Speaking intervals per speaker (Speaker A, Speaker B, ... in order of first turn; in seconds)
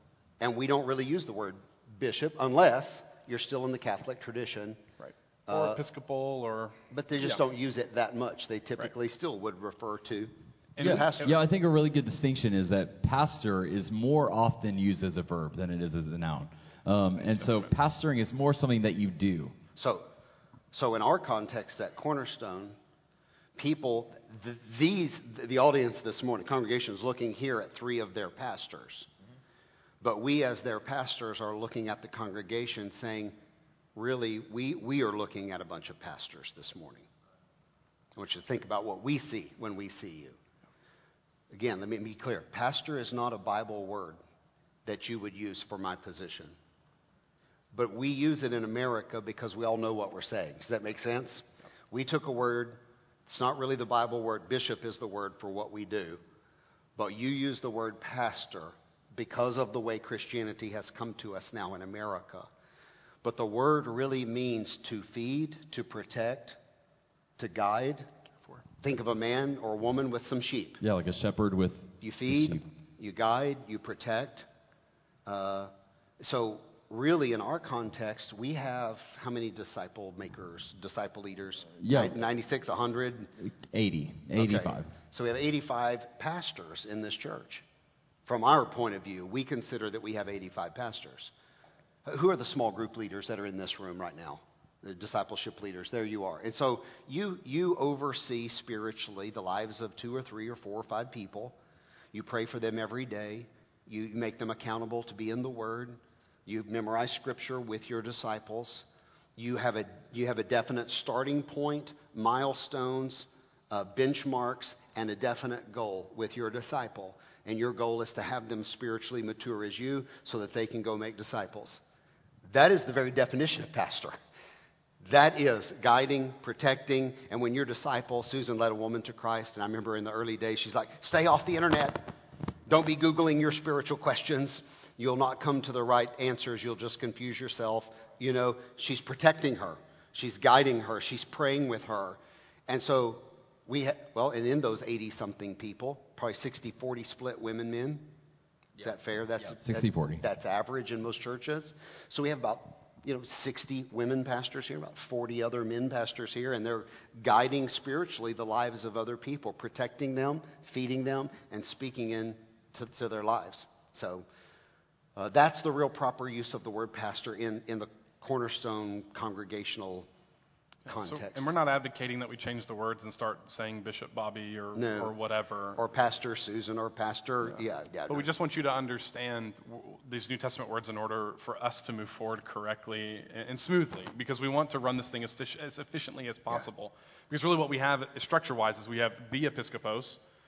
Speaker A: 0.4-4.8, 5.5-5.8, 6.9-11.3, 19.8-20.1, 20.7-22.8, 23.6-29.1, 30.0-33.3, 34.0-37.1, 38.1-40.4, 41.5-44.2, 44.9-46.5, 47.7-56.2, 57.0-62.5, 63.2-66.6, 67.4-68.1, 68.8-70.8, 72.0-74.5, 75.2-83.3, 84.3-87.6, 88.2-91.3, 92.0-101.5, 102.1-108.8, 109.4-121.8, 122.5-124.2, 125.0-132.1, 132.7-148.1, 148.8-164.2, 165.2-170.1, 170.9-171.5, 174.7-175.1, 175.8-178.3
Speaker B: 5.0-6.8, 10.8-11.3, 17.3-17.7, 170.8-175.8, 178.1-190.2
Speaker C: 10.8-19.6, 70.8-72.6, 81.8-82.2, 83.4-84.9, 149.4-150.2